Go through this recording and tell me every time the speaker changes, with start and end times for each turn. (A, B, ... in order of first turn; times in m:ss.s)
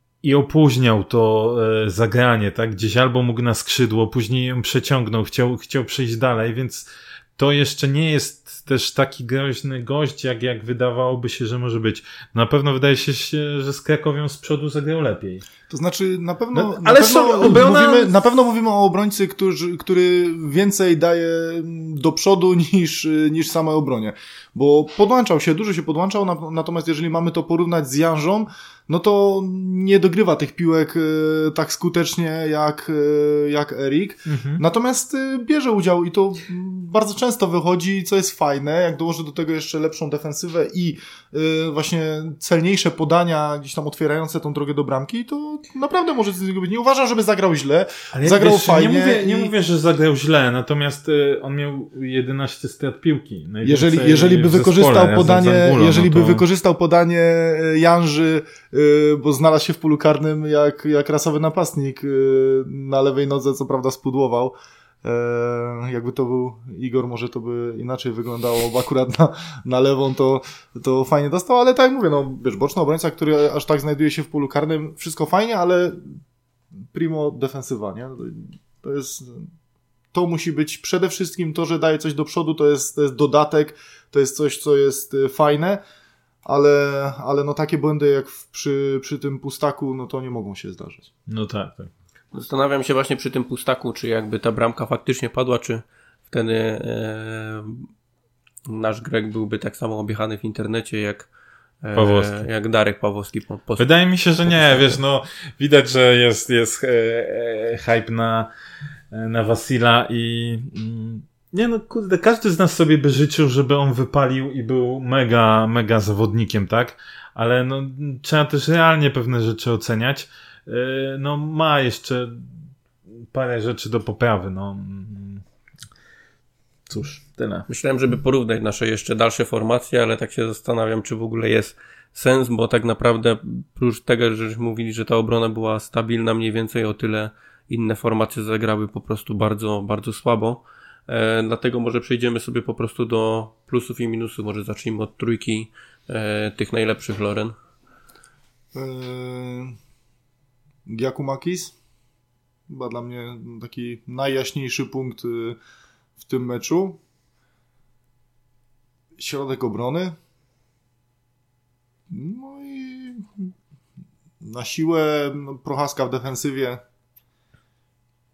0:00.2-0:15.4 A
0:15.7-0:49.5 B
0:16.5-0:18.1 A
0:34.3-0:34.6 A
0:48.1-0:56.4 A
0:53.6-1:16.2 B
1:16.9-1:19.5 B
1:20.1-1:25.8 B
1:26.4-1:31.1 B
1:31.3-1:31.9 A
1:32.3-1:37.9 C
1:38.7-1:41.3 C
1:41.8-1:43.9 C
1:41.9-1:42.4 A
1:43.8-1:48.5 A
1:44.4-1:45.0 C
1:49.1-2:02.5 A
2:03.3-2:05.4 A
2:06.9-2:07.7 A
2:07.7-2:27.5 C
2:28.7-2:29.8 B
2:30.9-2:31.8 B
2:32.7-2:35.6 B
2:36.2-2:37.0 B
2:39.2-2:40.2 B
2:42.1-2:43.5 B
2:44.4-2:46.8 B